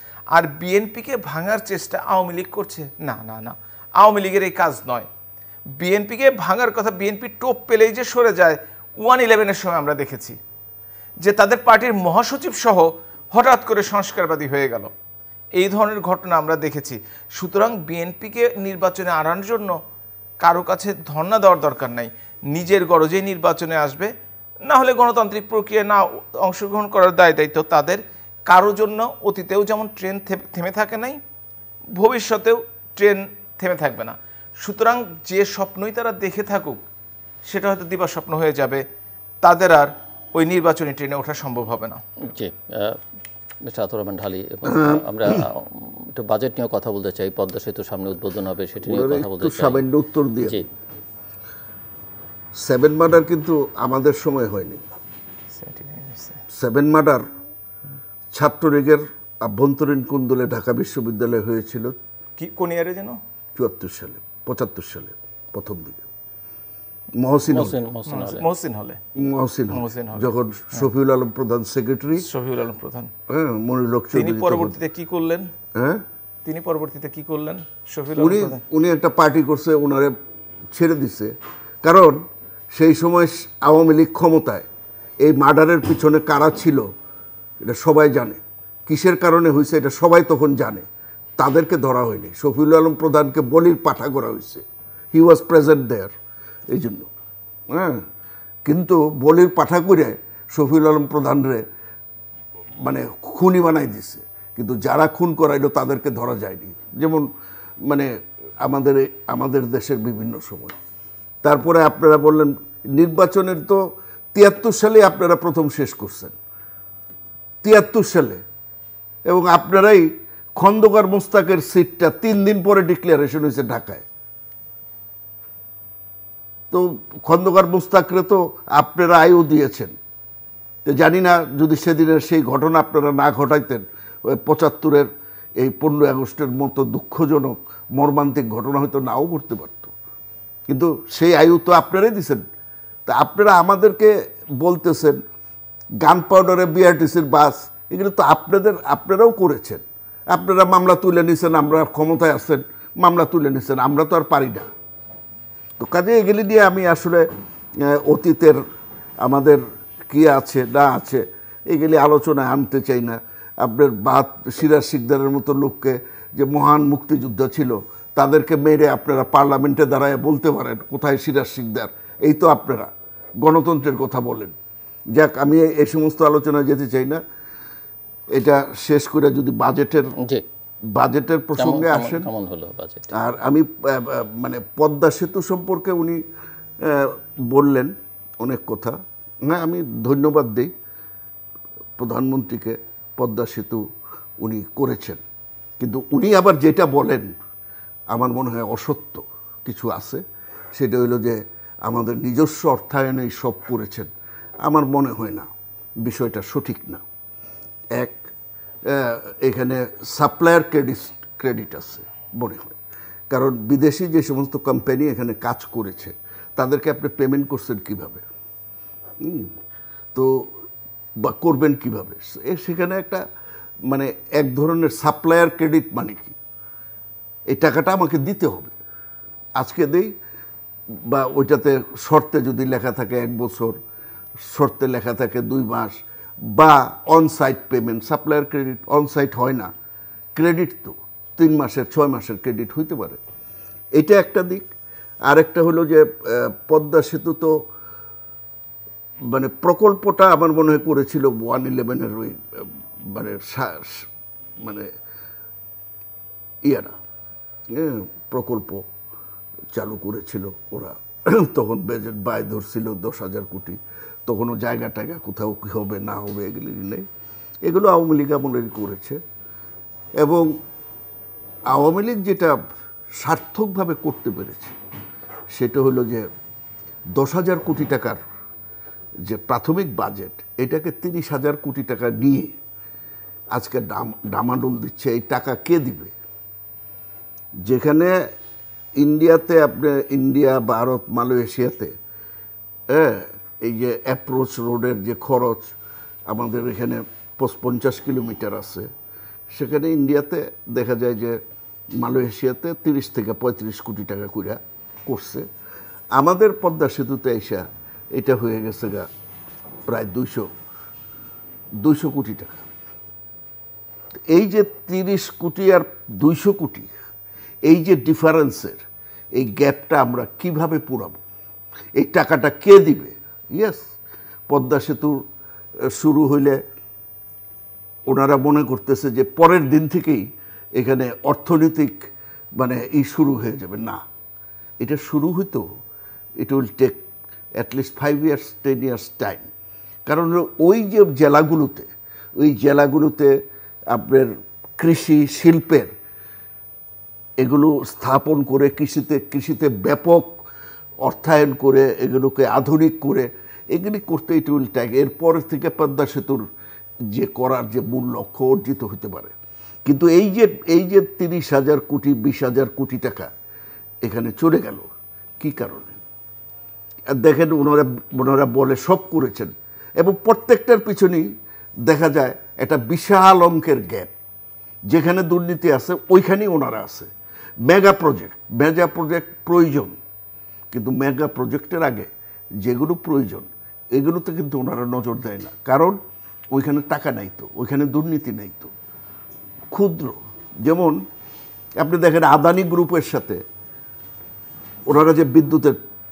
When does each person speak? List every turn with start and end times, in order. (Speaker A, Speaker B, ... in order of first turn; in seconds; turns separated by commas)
Speaker A: 0.3-5.1, Speaker A: 5.8-10.4, Speaker A: 11.2-14.9, Speaker A: 15.6-19.8, Speaker A: 20.4-24.1, Speaker A: 24.7-31.2, Speaker A: 32.0-36.8, Speaker A: 37.5-38.8, Speaker A: 39.4-42.0, Speaker B: 42.3-43.0, Speaker B: 43.6-49.8, Speaker C: 44.7-45.4, Speaker C: 48.8-50.6, Speaker C: 52.6-54.9, Speaker A: 55.5-56.4, Speaker C: 56.5-57.2, Speaker C: 58.3-62.0, Speaker A: 62.4-63.2, Speaker C: 63.6-66.0, Speaker C: 67.2-67.8, Speaker B: 67.5-68.5, Speaker A: 68.1-69.0, Speaker C: 69.2-72.3, Speaker A: 69.7-70.9, Speaker A: 72.2-73.1, Speaker C: 73.3-74.8, Speaker A: 74.2-75.5, Speaker C: 75.8-76.0, Speaker A: 76.5-78.6, Speaker C: 78.2-80.1, Speaker C: 80.7-84.7, Speaker C: 85.2-86.9, Speaker C: 87.6-90.9, Speaker C: 91.4-96.1, Speaker C: 96.7-97.1, Speaker C: 97.7-98.0, Speaker C: 98.7-101.6, Speaker C: 102.8-107.3, Speaker C: 108.6-110.8, Speaker C: 111.4-113.8, Speaker C: 114.3-116.4, Speaker C: 117.6-118.4, Speaker C: 119.3-124.0, Speaker C: 126.7-130.0, Speaker C: 130.8-139.9, Speaker C: 140.7-142.4, Speaker C: 143.1-145.2, Speaker C: 146.0-154.7, Speaker C: 155.8-157.2, Speaker C: 157.8-158.6, Speaker C: 159.2-174.6, Speaker C: 175.1-177.2, Speaker C: 178.3-180.1, Speaker C: 180.9-182.3, Speaker B: 181.6-183.1, Speaker C: 183.1-186.2, Speaker C: 186.8-190.7, Speaker C: 192.0-193.8, Speaker C: 194.4-195.2, Speaker C: 195.8-197.3, Speaker C: 198.1-200.2, Speaker C: 200.7-204.1, Speaker C: 204.7-205.5, Speaker C: 206.0-207.0, Speaker C: 208.0-208.2, Speaker C: 208.9-212.8, Speaker C: 213.3-218.2, Speaker C: 219.2-219.5, Speaker C: 220.1-220.5, Speaker C: 221.2-223.2, Speaker C: 223.9-226.4, Speaker C: 227.5-228.8, Speaker C: 229.6-230.1, Speaker C: 231.1-233.8, Speaker C: 234.5-236.0, Speaker C: 236.5-239.7, Speaker C: 240.3-243.2, Speaker C: 244.0-244.7, Speaker C: 245.3-247.7, Speaker C: 249.3-254.9, Speaker C: 256.6-257.0, Speaker C: 257.7-258.9, Speaker C: 259.7-267.1, Speaker C: 267.7-269.2, Speaker C: 270.2-270.5, Speaker C: 271.7-272.6, Speaker C: 273.2-274.8, Speaker C: 275.5-276.2, Speaker C: 277.2-278.2, Speaker C: 279.3-282.6, Speaker C: 283.5-286.1, Speaker C: 287.7-288.1, Speaker C: 289.0-291.9, Speaker C: 292.9-295.7, Speaker C: 296.3-298.9, Speaker C: 299.5-301.4, Speaker C: 302.0-305.5, Speaker C: 306.2-309.1, Speaker C: 309.9-310.5, Speaker C: 311.8-312.7, Speaker C: 314.3-316.9, Speaker C: 317.7-318.8, Speaker C: 319.4-321.2, Speaker C: 322.0-323.9, Speaker C: 324.5-325.2, Speaker C: 325.9-326.6, Speaker C: 328.1-330.3, Speaker C: 330.8-334.0, Speaker C: 334.8-335.7, Speaker C: 336.4-337.0, Speaker C: 337.6-339.5, Speaker C: 340.1-343.3, Speaker C: 343.9-345.9, Speaker C: 347.4-350.4, Speaker C: 351.0-356.4, Speaker C: 357.1-363.3, Speaker C: 364.1-364.9, Speaker C: 365.4-366.0, Speaker C: 367.1-371.3, Speaker C: 371.9-374.1, Speaker C: 374.9-377.1, Speaker C: 377.7-380.0, Speaker C: 380.7-382.1, Speaker C: 382.6-386.0, Speaker C: 386.5-388.7, Speaker C: 389.7-391.0, Speaker C: 391.8-393.4, Speaker C: 394.9-395.8